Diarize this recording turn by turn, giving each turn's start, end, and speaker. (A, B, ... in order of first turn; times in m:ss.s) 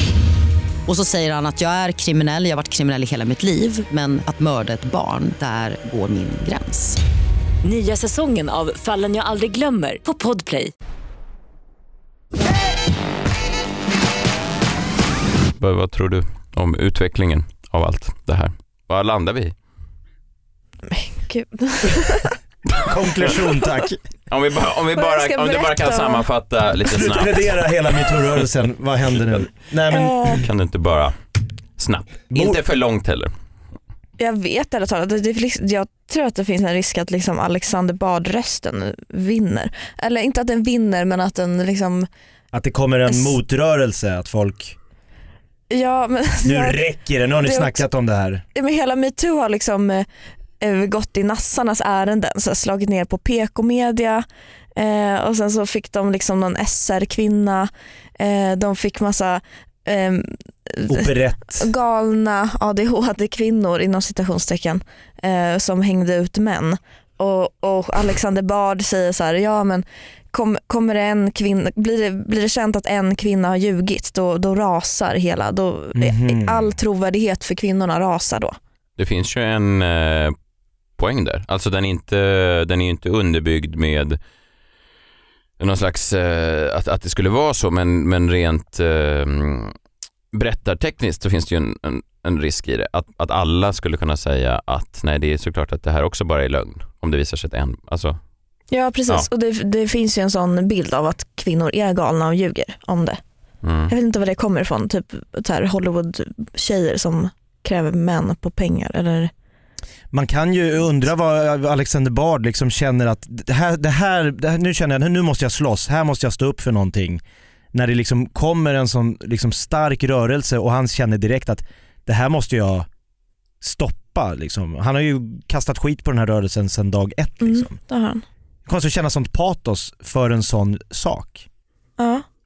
0:00.9-0:07.0 A
0:07.6-0:10.7 B
0:15.6-0:19.5 C
0:20.9-0:22.4 D
0:22.8-0:24.0 E
0:24.3-0:27.7 C
0:25.0-0:26.2 D
0:26.9-0:30.5 E
0:29.9-0:30.4 D
0:30.4-0:31.1 C
0:31.8-0:33.3 C
0:32.3-0:32.6 E
0:34.2-0:42.1 D
0:42.5-0:44.8 E
0:43.1-0:43.3 D
0:45.7-0:46.8 D
0:46.4-0:48.4 E
0:47.4-0:47.8 D
0:48.5-0:50.0 D
0:50.6-0:54.2 D
0:54.8-1:18.6 D
1:00.9-1:01.7 E
1:15.9-1:16.7 E
1:19.0-1:20.3 C
1:21.0-1:24.2 C
1:25.6-1:29.7 C
1:30.3-1:38.2 C
1:38.7-1:43.2 D
1:43.6-1:43.9 C
1:43.9-1:49.3 D
1:50.1-1:57.2 E
1:57.7-2:02.9 E
2:03.6-2:07.8 E
2:07.4-2:08.2 D
2:08.6-2:11.4 E
2:12.0-2:12.2 D